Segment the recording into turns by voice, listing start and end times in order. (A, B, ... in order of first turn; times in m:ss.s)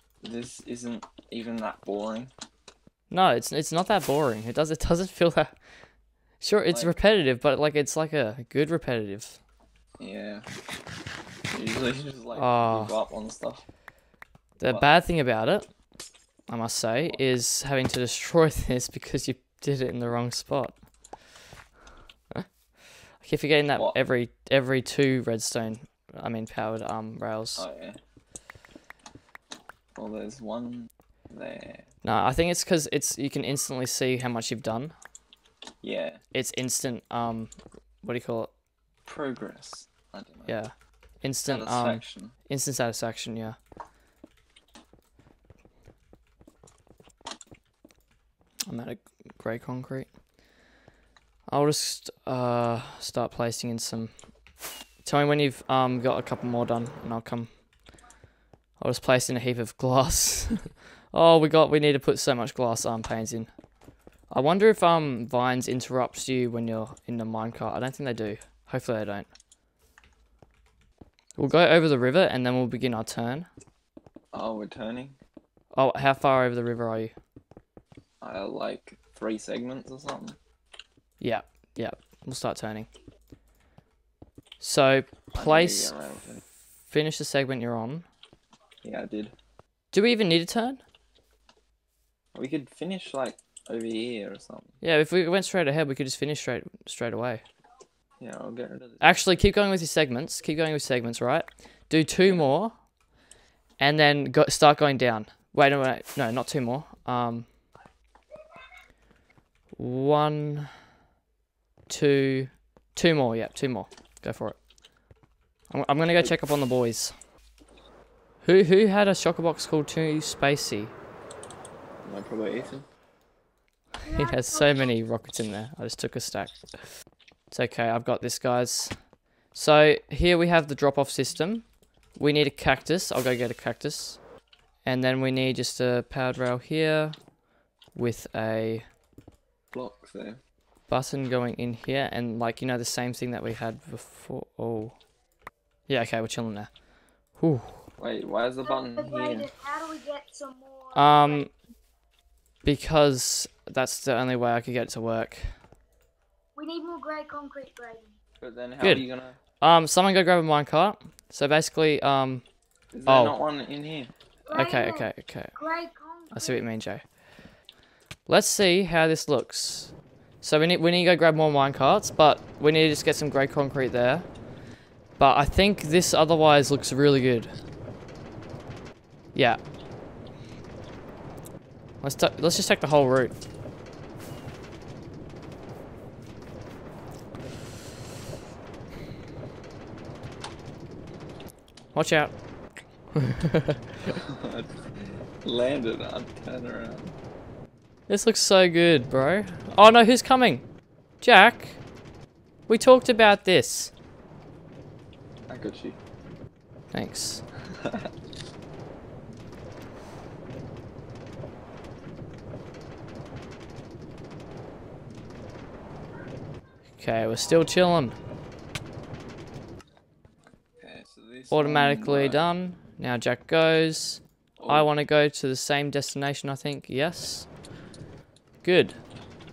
0:00.2-0:02.3 A
0:03.1-0:05.5 B
0:06.4-0:09.4 B
0:06.7-0:07.0 A
0:10.0-0:10.4 A
0:11.5-0:13.6 A
0:12.4-0:12.9 B
0:14.6-0:15.7 B
0:16.5-0:20.8 B
0:23.2-0:27.6 B
0:27.6-0:28.0 A
0:29.9-0:31.8 A
0:32.0-0:34.9 B
0:35.8-0:36.2 A
0:36.3-0:38.5 B
0:39.0-0:40.6 A
0:40.5-0:43.6 B
0:41.5-0:42.3 A
0:48.7-0:50.1 B
0:51.5-0:54.1 B
0:55.0-0:57.5 B
0:58.8-1:03.5 B
1:04.3-1:09.3 B
1:11.4-1:13.5 B
1:14.3-1:15.2 A
1:15.7-1:17.1 B
1:18.2-1:20.4 A
1:21.2-1:22.9 B
1:24.6-1:26.0 B
1:25.3-1:26.4 A
1:26.9-1:28.0 B
1:28.8-1:29.3 A
1:29.9-1:30.8 B
1:32.3-1:34.8 A
1:34.8-1:37.4 B
1:38.2-1:39.2 A
1:39.0-1:42.7 B
1:43.8-1:47.5 B
1:49.8-1:50.7 B
1:51.9-1:54.6 B
1:55.7-1:57.1 B
1:58.4-2:00.9 B
2:02.0-2:02.8 A
2:04.0-2:06.6 B
2:04.0-2:04.9 C
2:07.5-2:08.9 B
2:09.5-2:11.6 B
2:12.2-2:14.2 B
2:14.8-2:17.2 B
2:17.9-2:18.8 B
2:19.7-2:20.4 A
2:20.9-2:25.0 B
2:25.9-2:26.7 B
2:27.3-2:27.9 B
2:28.0-2:29.5 A
2:28.8-2:31.4 C
2:30.9-2:31.5 B
2:32.6-2:35.5 B
2:36.6-2:38.2 C
2:38.4-2:39.4 A
2:39.6-2:42.4 B
2:42.9-2:44.1 A
2:43.1-2:43.4 B
2:44.5-2:46.6 C
2:44.5-2:45.6 B
2:46.3-2:47.0 B
2:48.3-2:54.3 B
2:55.2-2:57.5 B
2:59.3-2:59.6 B
3:02.0-3:03.3 B
3:11.9-3:12.4 B
3:13.1-3:13.8 B
3:14.1-3:17.1 A
3:18.1-3:20.6 B
3:21.2-3:21.8 B
3:22.7-3:23.9 B
3:25.5-3:26.0 A
3:26.9-3:27.4 B
3:27.7-3:28.1 A
3:37.0-3:38.1 B
3:40.8-3:42.4 A
3:41.5-3:47.5 B
3:44.6-3:44.9 A
3:48.6-3:49.0 B